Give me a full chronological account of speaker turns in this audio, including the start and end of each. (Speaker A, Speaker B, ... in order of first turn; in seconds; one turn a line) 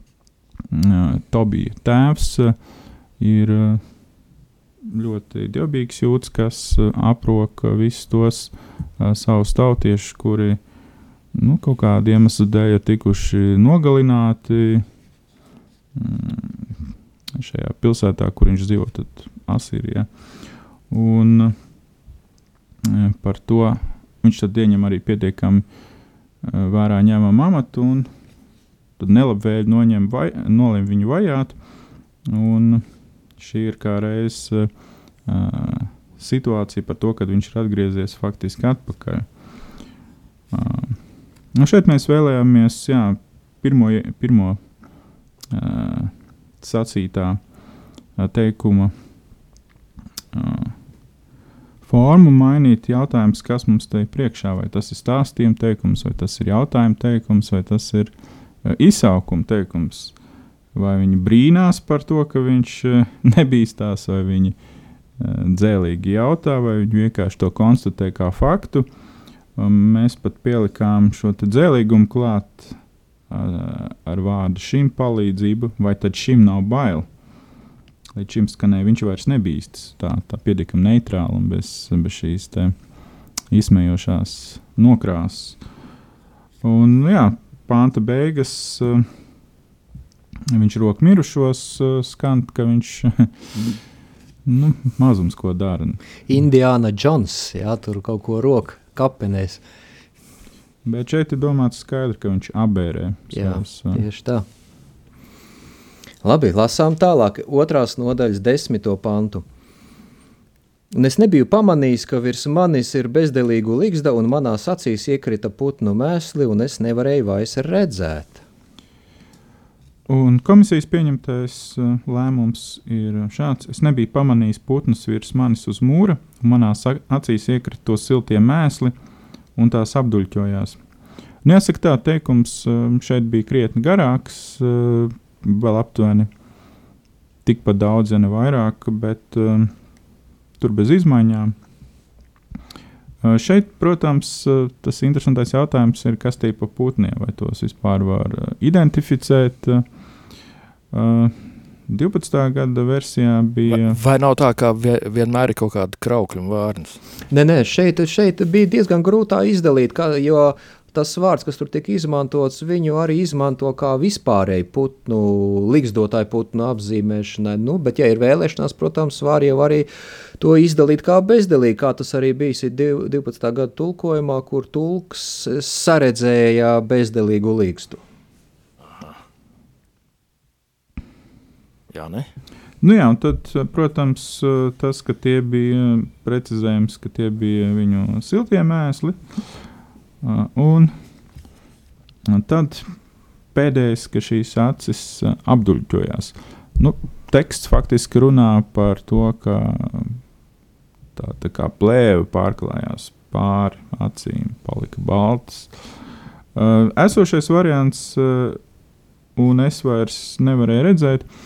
Speaker A: 0.7-2.6
Speaker A: 3.2-3.8
Speaker A: 4.9-10.6
Speaker A: 11.3-14.9
Speaker A: 15.9-16.8
Speaker A: 17.3-20.1
Speaker A: 20.9-21.6
Speaker A: 22.8-25.6
Speaker A: 26.4-28.1
Speaker A: 29.0-31.6
Speaker A: 32.3-32.9
Speaker A: 33.4-34.7
Speaker A: 35.2-39.3
Speaker A: 40.5-41.0
Speaker A: 41.5-44.6
Speaker A: 45.5-47.4
Speaker A: 48.2-48.9
Speaker A: 50.3-50.8
Speaker A: 51.8-58.1
Speaker A: 58.6-60.1
Speaker A: 60.8-64.6
Speaker A: 65.2-68.9
Speaker A: 69.6-77.1
Speaker A: 78.2-82.8
Speaker A: 83.5-85.6
Speaker A: 86.6-89.1
Speaker A: 90.5-93.3
Speaker A: 94.5-96.0
Speaker B: 96.3-99.6
Speaker A: 100.8-104.0
Speaker B: 103.3-104.5
Speaker B: 106.2-109.5
Speaker B: 110.9-118.4
Speaker A: 120.1-128.9
Speaker A: 129.6-130.8
Speaker A: 131.4-136.3
Speaker A: 137.4-139.7
Speaker A: 140.6-141.6
Speaker A: 143.2-149.8
Speaker A: 150.9-154.0
Speaker C: 153.7-157.0
Speaker B: 157.3-178.0
Speaker C: 178.9-179.2
Speaker C: 181.9-182.3
Speaker A: 182.8-189.2
Speaker A: 190.2-190.9
Speaker A: 192.3-192.9
Speaker A: 193.5-200.2
Speaker A: 201.2-205.7
Speaker A: 206.6-208.6
Speaker A: 209.4-211.3